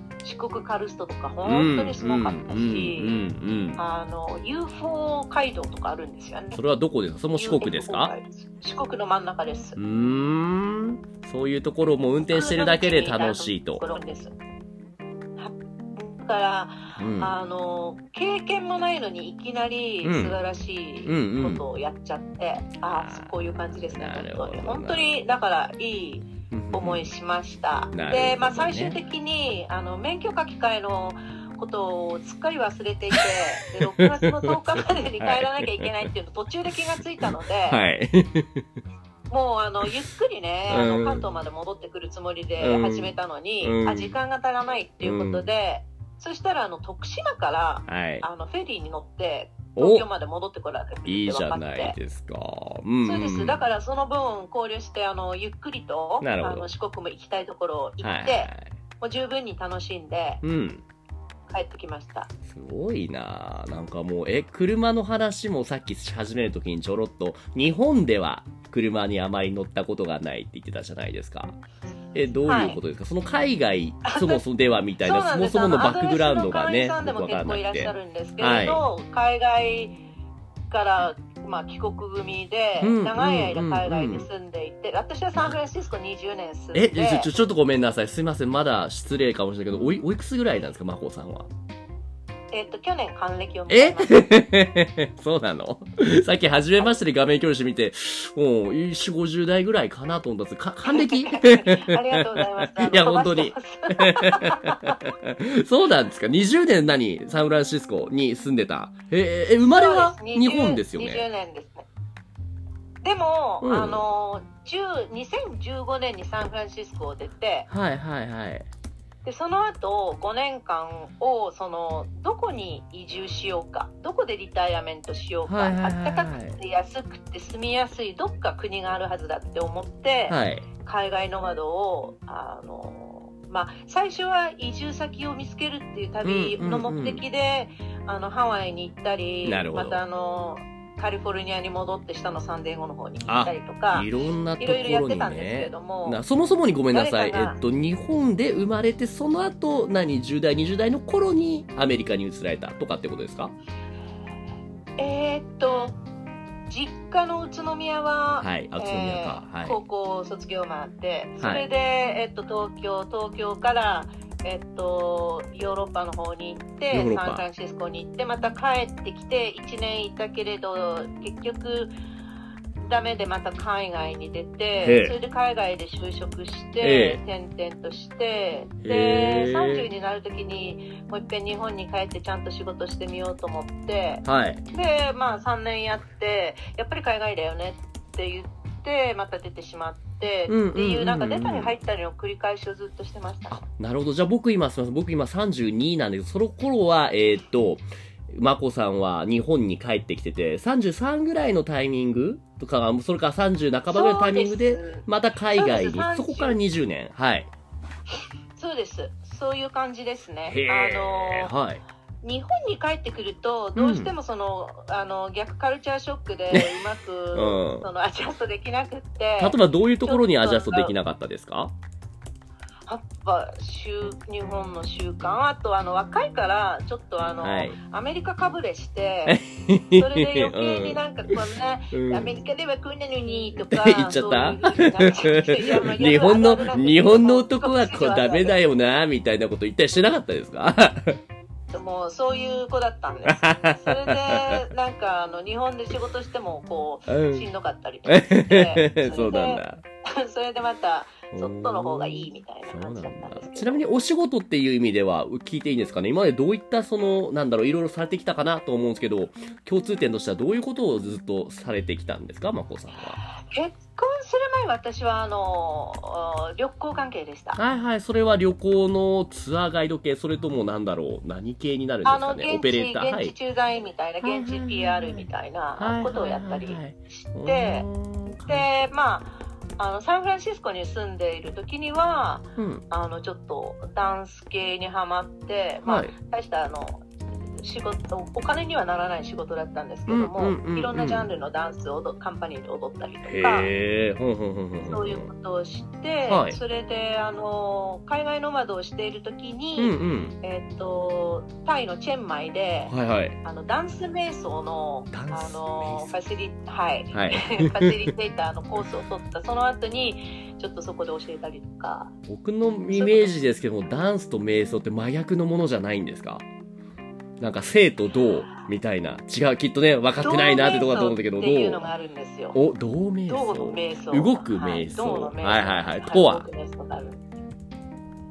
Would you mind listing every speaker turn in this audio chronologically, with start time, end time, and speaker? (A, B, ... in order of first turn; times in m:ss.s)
0:00.2-0:03.2 A
0:01.4-0:03.8 B
0:03.8-0:06.6 A
0:06.5-0:08.1 B
0:07.4-0:09.8 A
0:09.8-0:13.8 B
0:12.3-0:14.3 A
0:15.4-0:37.8 A
0:17.0-0:17.3 B
0:20.0-0:20.4 B
0:21.0-0:21.6 B
0:22.9-0:25.1 B
0:26.5-0:27.1 B
0:27.9-0:29.0 B
0:33.2-0:36.1 B
0:37.2-0:38.6 B
0:39.3-0:52.0 A
0:40.7-0:41.2 B
0:42.6-0:44.2 B
0:45.0-0:45.4 B
0:47.9-0:48.2 B
0:49.8-0:50.0 B
0:51.0-0:53.6 B
0:53.0-1:00.4 A
0:56.2-0:56.7 B
0:58.0-0:58.7 B
1:00.4-1:00.8 B
1:01.5-1:02.3 A
1:02.5-1:11.6 B
1:12.1-1:18.8 B
1:12.5-1:12.8 A
1:14.0-1:14.4 A
1:15.0-1:20.0 A
1:20.7-1:27.3 A
1:22.8-1:24.3 B
1:26.7-1:31.5 B
1:32.5-1:34.3 A
1:33.7-1:51.2 B
1:40.8-1:45.1 A
1:49.6-1:51.9 A
1:53.0-1:57.7 A
1:53.6-1:54.0 B
1:57.7-1:58.7 B
1:59.2-2:24.1 A
2:05.5-2:06.6 B
2:10.3-2:10.7 B
2:16.2-2:17.2 B
2:19.4-2:20.0 B
2:23.2-2:33.5 B
2:24.6-2:26.2 A
2:26.9-2:27.6 A
2:35.0-2:36.0 A
2:36.7-2:51.9 A
2:38.4-2:39.8 B
2:41.4-2:41.6 B
2:46.9-2:47.4 B
2:52.8-3:13.6 A
2:54.8-2:55.1 B
2:56.8-2:57.2 B
2:58.8-2:59.9 B
3:04.2-3:04.6 B
3:10.5-3:11.8 B
3:13.5-3:27.5 B
3:23.9-3:26.6 A
3:28.6-3:31.5 A
3:30.5-3:31.8 B
3:32.2-3:40.9 A
3:33.8-3:34.1 B
3:36.5-3:37.9 B
3:39.4-3:41.7 B
3:42.9-3:49.4 A
3:47.4-3:47.8 B
3:49.2-3:51.4 B
3:49.9-3:58.6 A
3:51.9-3:52.3 B
3:53.6-4:01.2 B
4:01.7-4:13.8 A
4:03.2-4:04.7 B
4:07.1-4:07.5 B
4:08.0-4:09.8 B
4:11.3-4:23.2 B
4:23.3-4:27.6 A
4:27.6-4:33.3 B
4:32.0-4:37.9 A
4:34.2-4:35.2 B
4:35.8-4:38.7 B
4:38.5-4:47.0 A
4:42.6-4:42.8 B
4:45.8-4:46.1 B
4:47.6-4:53.7 A
4:50.1-4:51.3 B
4:53.2-4:55.3 B
4:54.8-5:12.1 A
4:56.3-4:56.6 B
4:59.8-5:00.4 B
5:02.9-5:03.4 B
5:05.1-5:06.1 B
5:07.1-5:08.1 B
5:12.3-5:16.4 B
5:12.9-5:13.3 A
5:17.4-5:21.9 B
5:20.2-5:22.6 A
5:22.5-5:26.5 B
5:23.3-5:27.2 A